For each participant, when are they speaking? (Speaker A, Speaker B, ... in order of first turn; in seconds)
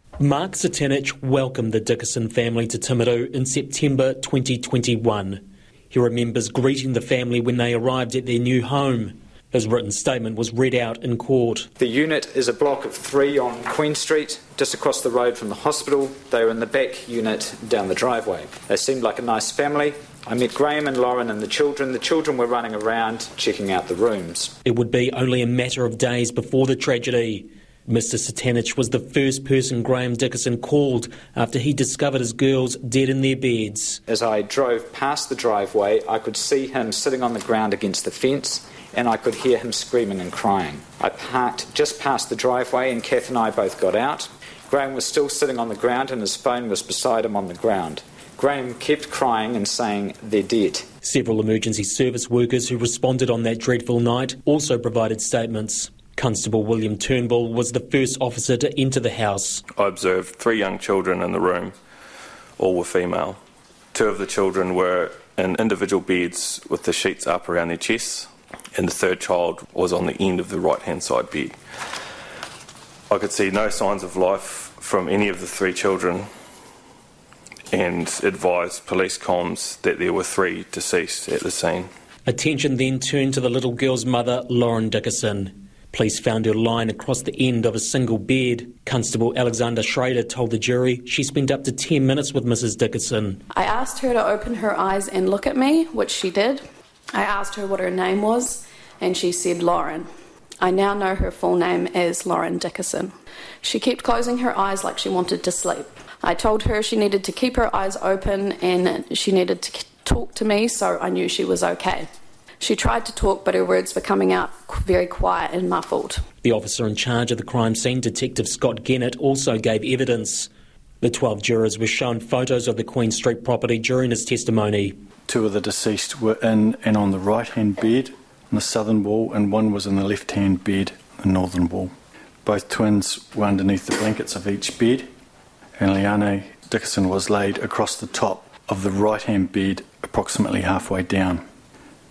Speaker A: 0.2-11.7, 24.6-34.0, 51.0-59.6, 82.2-93.4, 116.4-120.5, 121.0-124.9
Speaker B: 11.8-24.5, 34.1-50.9
Speaker C: 59.8-61.7, 62.6-63.4, 63.9-71.5, 73.1-76.3, 77.7-81.9
Speaker D: 93.5-96.6, 97.1-100.1, 100.6-103.1, 103.6-112.1, 112.6-116.2
Speaker E: 125.3-131.9, 132.4-135.1, 135.8-141.4